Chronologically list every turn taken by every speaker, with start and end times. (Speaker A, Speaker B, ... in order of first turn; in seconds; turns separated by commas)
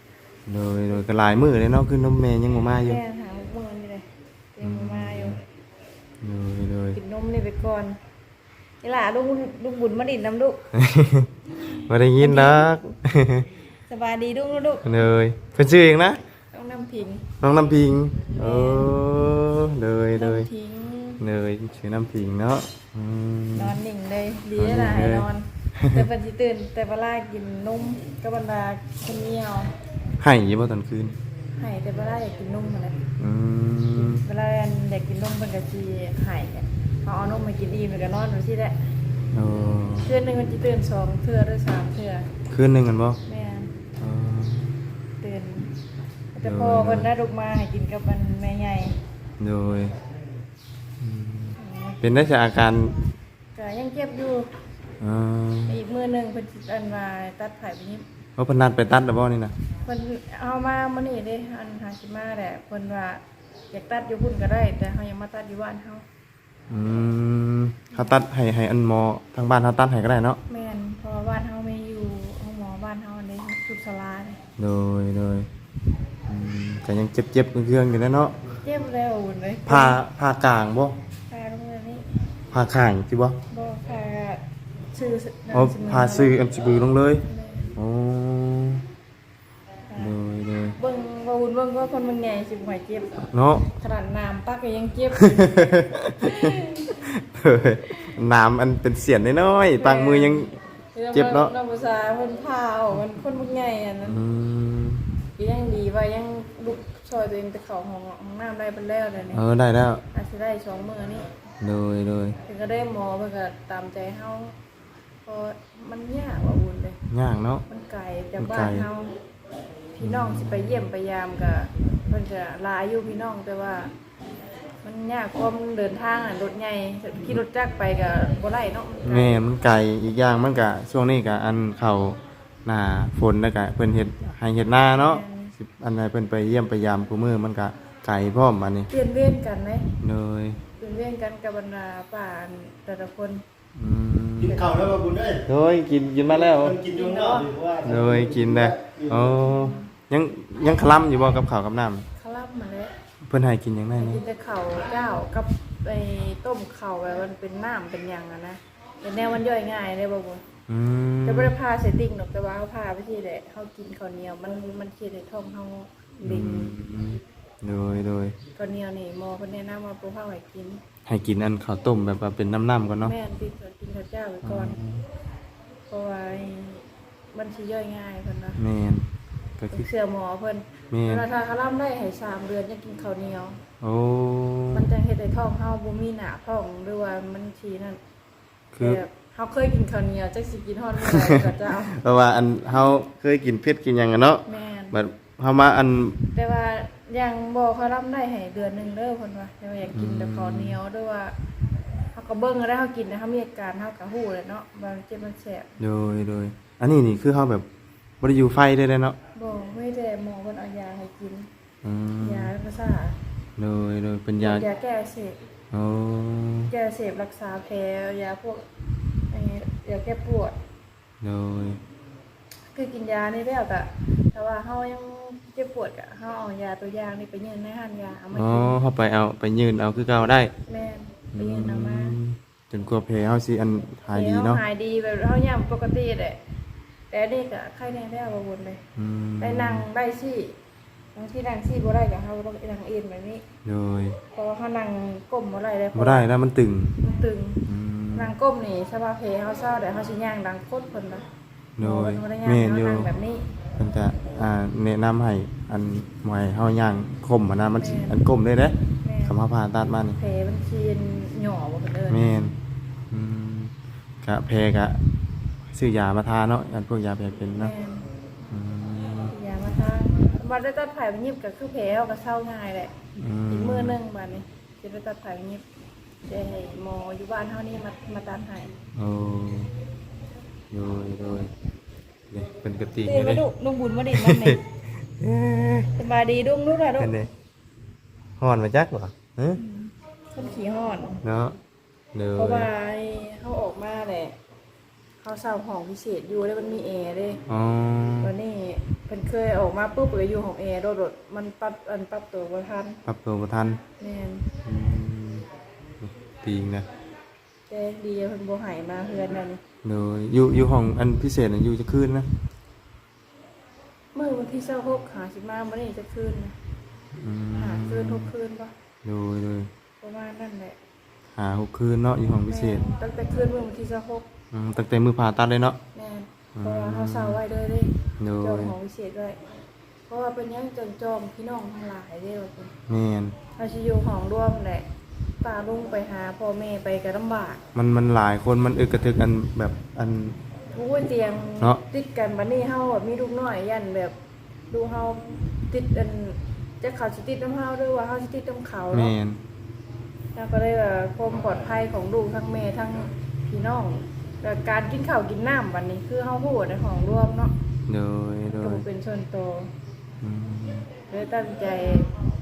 Speaker A: 0.5-3.0, Speaker B: 2.7-5.4, Speaker A: 4.6-5.4, Speaker A: 6.2-7.0, Speaker B: 6.9-8.0, Speaker B: 8.8-10.6, Speaker A: 10.8-13.5, Speaker B: 12.2-12.7, Speaker B: 13.9-15.0, Speaker A: 14.8-16.2, Speaker B: 16.5-17.3, Speaker A: 17.4-20.5, Speaker B: 18.3-19.0, Speaker B: 20.1-21.2, Speaker A: 21.2-23.8, Speaker B: 23.6-29.7, Speaker A: 24.6-26.1, Speaker A: 30.2-31.2, Speaker B: 31.6-33.1, Speaker A: 33.2-34.3, Speaker B: 34.2-38.8, Speaker A: 39.3-40.2, Speaker B: 40.0-42.3, Speaker A: 42.5-43.2, Speaker B: 43.3-43.7, Speaker A: 44.0-44.8, Speaker B: 45.2-45.7, Speaker B: 46.3-49.0, Speaker A: 46.4-47.1, Speaker A: 49.4-50.0, Speaker A: 51.0-53.0, Speaker B: 51.6-52.3, Speaker B: 53.5-54.5, Speaker A: 55.0-55.8, Speaker B: 55.7-58.1, Speaker A: 58.4-59.5, Speaker B: 59.9-66.0, Speaker A: 66.7-70.4, Speaker B: 70.5-74.4, Speaker A: 74.6-75.5, Speaker A: 76.3-78.4, Speaker B: 78.6-80.0, Speaker A: 79.7-81.0, Speaker B: 81.3-82.1, Speaker A: 82.5-83.4, Speaker B: 83.5-86.4, Speaker A: 85.5-87.2, Speaker B: 87.3-87.8, Speaker A: 87.8-88.8, Speaker B: 89.9-90.1, Speaker A: 90.0-90.8, Speaker B: 90.8-96.9, Speaker A: 93.2-93.7, Speaker A: 95.1-100.6, Speaker B: 99.7-104.2, Speaker A: 101.1-101.5, Speaker A: 104.0-105.0, Speaker B: 105.4-109.4, Speaker A: 109.3-110.0, Speaker B: 110.1-111.3, Speaker A: 111.6-112.4, Speaker B: 112.5-114.6, Speaker B: 115.2-117.0, Speaker A: 117.1-117.7, Speaker B: 117.7-119.2, Speaker A: 118.4-118.9, Speaker B: 119.9-123.9, Speaker A: 120.0-120.9, Speaker B: 124.8-129.4, Speaker A: 129.0-138.9, Speaker B: 134.9-135.6, Speaker B: 138.9-140.0, Speaker A: 140.0-140.6, Speaker B: 140.8-143.4, Speaker A: 143.8-146.9, Speaker C: 144.6-145.4, Speaker C: 146.3-149.3, Speaker B: 146.9-147.5, Speaker A: 147.8-152.1, Speaker B: 149.4-149.9, Speaker B: 152.2-152.9, Speaker A: 153.3-154.2, Speaker B: 153.9-160.4, Speaker A: 160.7-161.6, Speaker B: 161.2-166.8, Speaker A: 166.2-168.4, Speaker B: 168.6-170.8, Speaker A: 171.1-173.2, Speaker B: 173.0-174.8, Speaker A: 174.4-175.1, Speaker B: 175.9-178.6, Speaker A: 178.6-179.9, Speaker B: 179.7-183.6, Speaker A: 180.9-181.3, Speaker A: 183.8-184.9, Speaker B: 184.7-188.0, Speaker A: 188.7-189.0, Speaker B: 188.8-192.0, Speaker A: 191.0-196.3, Speaker B: 194.5-195.0, Speaker B: 196.3-201.4, Speaker A: 199.9-200.8, Speaker B: 202.1-205.7, Speaker A: 205.8-207.7, Speaker A: 208.2-209.2, Speaker B: 209.3-211.5, Speaker A: 211.8-212.5, Speaker B: 212.2-213.2, Speaker A: 213.6-214.7, Speaker B: 214.4-215.4, Speaker A: 215.7-216.7, Speaker B: 216.7-220.6, Speaker A: 221.2-221.8, Speaker B: 222.7-228.8, Speaker A: 228.3-230.5, Speaker B: 230.7-232.2, Speaker A: 231.3-234.6, Speaker B: 234.1-236.4, Speaker B: 237.1-238.8, Speaker A: 239.0-239.9, Speaker B: 239.4-240.6, Speaker B: 241.2-243.4, Speaker A: 243.6-244.2, Speaker B: 244.3-246.3, Speaker A: 245.9-247.0, Speaker B: 247.0-247.6, Speaker A: 247.7-248.3, Speaker B: 248.2-251.3, Speaker A: 251.8-253.1, Speaker B: 251.8-253.5, Speaker A: 253.8-260.2, Speaker B: 257.8-258.2, Speaker B: 259.0-259.4, Speaker B: 260.2-262.4, Speaker A: 262.1-262.6, Speaker A: 263.1-265.0, Speaker A: 265.7-267.7, Speaker B: 267.6-268.1, Speaker A: 268.5-269.4, Speaker B: 269.3-273.0, Speaker A: 273.2-274.0, Speaker B: 273.5-275.6, Speaker B: 276.2-278.7, Speaker A: 279.0-279.7, Speaker A: 280.7-281.5, Speaker A: 282.3-283.5, Speaker B: 283.1-284.6, Speaker A: 284.1-285.9, Speaker B: 286.0-287.1, Speaker A: 287.0-287.3, Speaker A: 288.4-289.6, Speaker B: 289.6-291.2, Speaker A: 291.2-291.6, Speaker A: 292.1-292.7, Speaker B: 292.4-294.4, Speaker B: 295.2-297.4, Speaker A: 297.5-298.4, Speaker B: 298.2-303.0, Speaker A: 303.1-303.8, Speaker B: 304.0-304.5, Speaker A: 304.6-305.5, Speaker A: 306.0-306.9, Speaker B: 307.7-309.6, Speaker A: 309.8-312.3, Speaker B: 314.1-316.6, Speaker A: 317.1-318.3, Speaker B: 317.6-318.7, Speaker A: 319.0-319.7, Speaker B: 320.0-320.8, Speaker A: 321.4-323.0, Speaker B: 322.5-324.3, Speaker A: 324.5-325.8, Speaker B: 325.9-329.4, Speaker A: 326.6-327.4, Speaker A: 328.2-328.8, Speaker B: 330.1-332.7, Speaker A: 332.9-333.4, Speaker B: 333.6-334.9, Speaker B: 335.4-337.6, Speaker A: 337.7-340.4, Speaker B: 340.7-344.1, Speaker B: 344.7-349.1, Speaker A: 348.9-349.4, Speaker B: 350.4-357.6, Speaker A: 357.9-358.9, Speaker B: 358.5-359.7, Speaker A: 360.2-360.9, Speaker B: 361.1-362.1